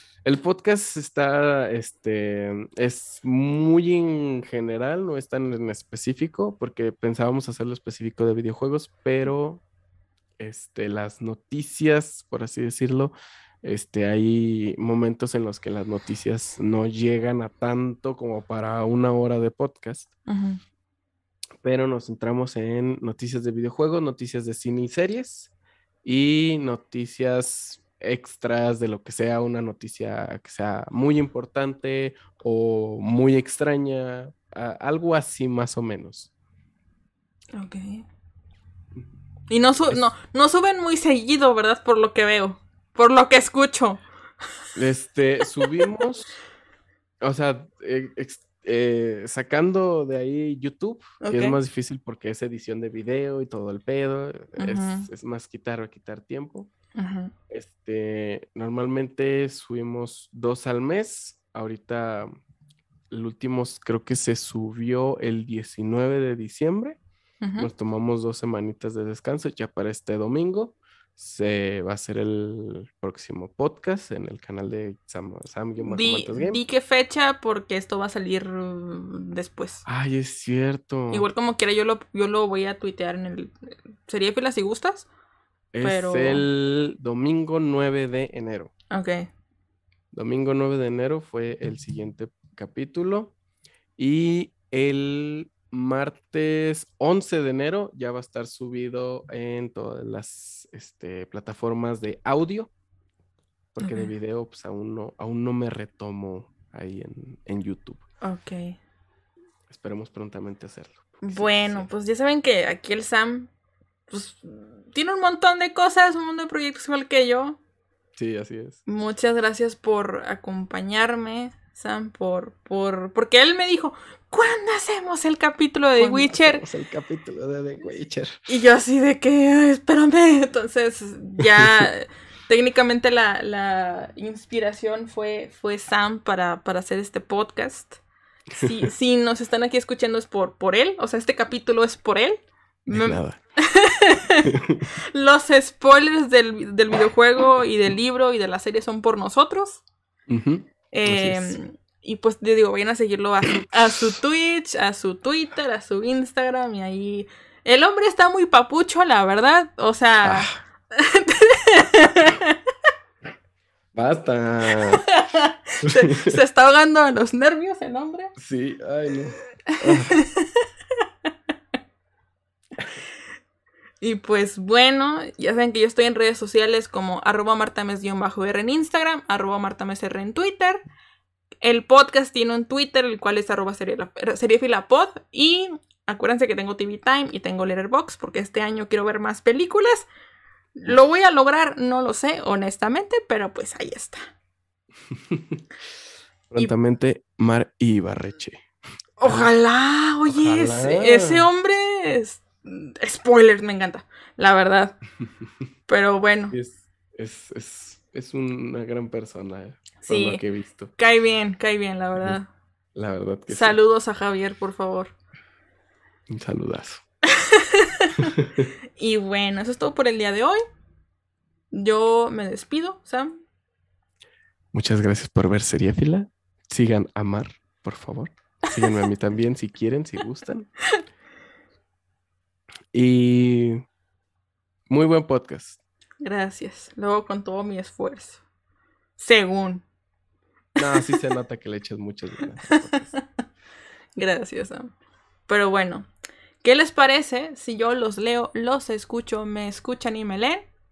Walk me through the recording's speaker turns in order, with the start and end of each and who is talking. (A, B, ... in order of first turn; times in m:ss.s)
0:00.2-0:09.6 A
0:10.4-0:20.1 A
0:20.3-0:20.6 B
0:21.6-0:25.5 A
0:26.0-0:36.3 A
0:37.6-0:38.0 B
0:39.5-0:44.0 B
0:44.8-0:46.4 A
0:47.2-0:56.7 A
0:51.2-0:51.6 B
0:54.6-0:55.1 B
0:57.0-0:57.3 B
0:57.5-1:02.3 A
1:03.1-1:07.0 A
1:07.4-1:07.7 B
1:07.6-1:16.6 A
1:15.8-1:19.8 B
1:19.9-1:21.3 A
1:21.1-1:25.1 B
1:25.7-1:28.7 A
1:25.8-1:26.5 B
1:28.9-1:29.3 B
1:30.1-1:33.3 A
1:34.0-1:42.7 A
1:43.7-1:48.0 A
1:43.8-1:44.1 B
1:48.2-1:48.8 B
1:49.7-1:51.9 A
1:51.2-1:53.5 B
1:54.1-1:57.6 B
1:58.2-1:58.8 A
1:58.9-2:06.6 B
2:06.0-2:08.3 A
2:08.5-2:18.0 B
2:11.6-2:11.9 A
2:18.5-2:24.5 B
2:22.9-2:23.4 A
2:24.4-2:24.8 A
2:25.1-2:29.8 B
2:30.3-2:31.6 A
2:30.9-2:42.6 B
2:33.5-2:34.1 A
2:40.2-2:40.6 A
2:44.0-2:45.1 A
2:45.1-2:48.3 B
2:45.9-2:46.4 A
2:48.4-2:50.1 A
2:49.7-2:50.6 B
2:54.0-3:00.8 B
3:01.6-3:10.1 B
3:10.8-3:14.3 B
3:15.3-3:15.6 A
3:16.5-3:18.6 A
3:19.2-3:25.0 B
3:19.2-3:19.5 A
3:20.3-3:21.5 A
3:25.9-3:26.6 B
3:26.5-3:30.9 A
3:30.0-3:30.4 B
3:31.0-3:32.5 B
3:33.0-3:33.8 A
3:33.5-3:35.1 B
3:36.3-3:37.0 A
3:37.3-3:38.2 B
3:38.2-3:38.7 A
3:39.0-3:40.6 B
3:41.7-3:43.3 B
3:44.7-3:50.7 A
3:52.9-3:53.8 A
3:54.9-3:55.8 A
3:56.2-3:58.4 B
3:59.2-3:59.8 B
4:00.8-4:03.2 A
4:02.7-4:03.2 B
4:04.2-4:04.9 B
4:05.5-4:06.1 B
4:06.6-4:10.7 B